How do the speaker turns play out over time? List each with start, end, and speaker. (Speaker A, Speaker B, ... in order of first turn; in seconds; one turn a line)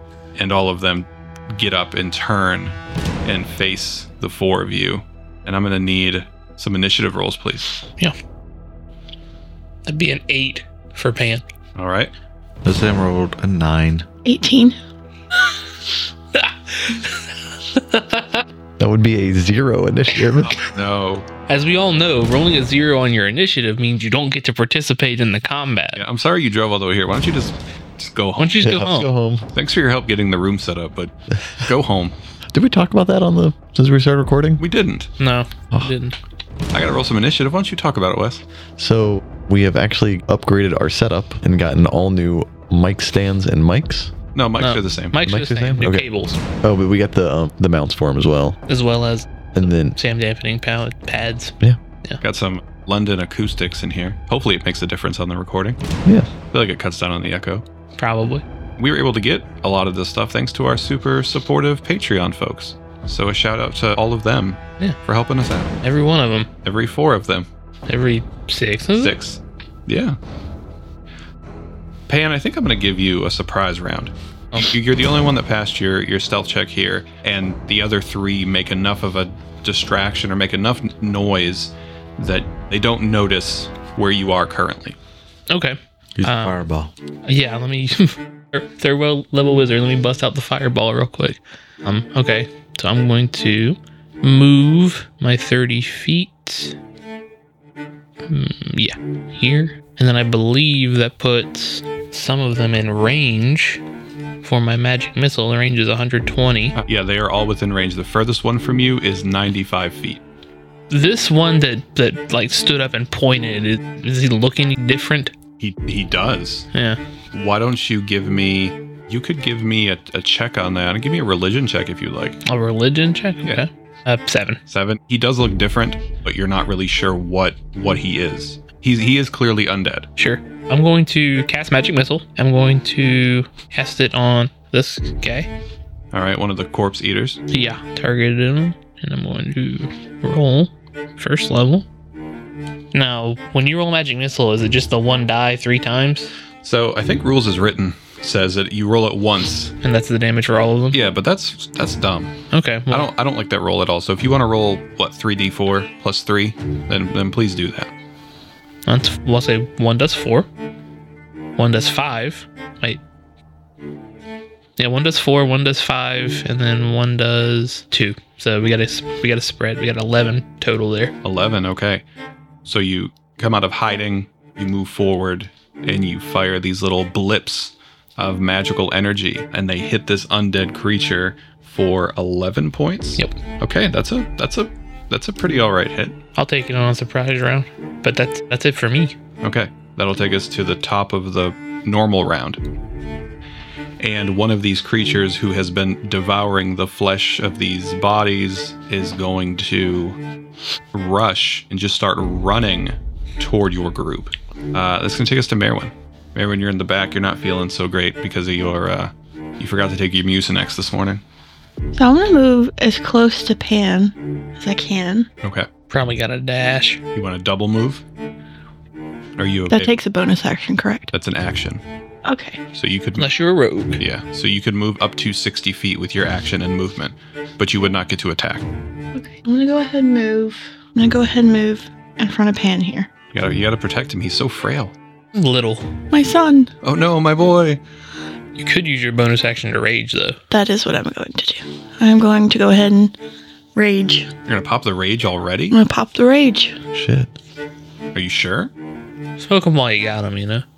Speaker A: 0.3-7.7
Speaker B: 9.9-11.4
Speaker A: 11.8-12.1
Speaker C: 12.6-14.1
Speaker D: 14.2-14.8
Speaker B: 16.3-18.4
Speaker E: 18.8-20.6
Speaker A: 20.5-21.2
Speaker B: 21.5-26.0
Speaker A: 25.9-28.8
Speaker B: 28.4-29.1
Speaker E: 28.6-29.5
Speaker A: 29.5-32.1
Speaker E: 32.5-34.6
Speaker A: 34.6-35.1
Speaker B: 35.2-36.1
Speaker A: 36.7-38.4
Speaker E: 38.8-44.1
Speaker A: 44.3-45.2
Speaker B: 44.6-46.4
Speaker E: 45.2-46.0
Speaker E: 46.6-48.6
Speaker B: 48.7-52.2
Speaker E: 49.5-50.0
Speaker A: 52.2-55.8
Speaker A: 56.5-57.6
Speaker B: 58.0-58.4
Speaker A: 58.8-65.7
Speaker B: 65.8-66.5
Speaker A: 66.6-67.5
Speaker B: 67.9-69.1
Speaker A: 69.0-70.2
Speaker A: 72.1-85.0
Speaker B: 85.5-86.6
Speaker C: 86.2-86.9
Speaker B: 87.2-96.8
Speaker B: 98.2-103.8
Speaker B: 104.4-106.8
Speaker A: 106.8-110.2
Speaker B: 110.9-115.3
Speaker A: 115.6-116.7
Speaker B: 116.7-117.0
Speaker A: 117.3-122.4
Speaker B: 122.4-124.6
Speaker A: 124.7-130.1
Speaker B: 130.2-135.5
Speaker A: 136.1-137.4
Speaker B: 137.5-141.8
Speaker B: 142.9-146.3
Speaker A: 146.6-149.7
Speaker B: 149.8-151.0
Speaker A: 150.9-152.3
Speaker B: 152.5-153.1
Speaker A: 152.9-157.9
Speaker B: 158.9-160.5
Speaker B: 161.6-163.0
Speaker B: 164.8-171.1
Speaker A: 171.2-172.0
Speaker A: 172.6-186.2
Speaker B: 186.3-189.1
Speaker A: 189.4-192.6
Speaker A: 194.0-200.2
Speaker A: 200.9-211.2
Speaker D: 211.9-215.3
Speaker A: 215.4-215.7
Speaker B: 215.9-217.0
Speaker A: 217.1-218.0
Speaker A: 219.4-219.9
Speaker D: 219.7-221.1
Speaker A: 221.1-221.8
Speaker D: 222.2-222.6
Speaker A: 222.7-223.3
Speaker B: 223.2-224.0
Speaker A: 224.0-228.6
Speaker D: 229.1-233.1
Speaker A: 233.3-234.9
Speaker B: 235.3-235.9
Speaker D: 236.1-236.7
Speaker A: 236.8-237.8
Speaker B: 238.6-240.4
Speaker D: 240.5-243.1
Speaker D: 243.7-244.3
Speaker A: 244.5-245.8
Speaker D: 245.7-246.8
Speaker C: 246.9-247.3
Speaker A: 248.1-248.7
Speaker B: 249.4-250.6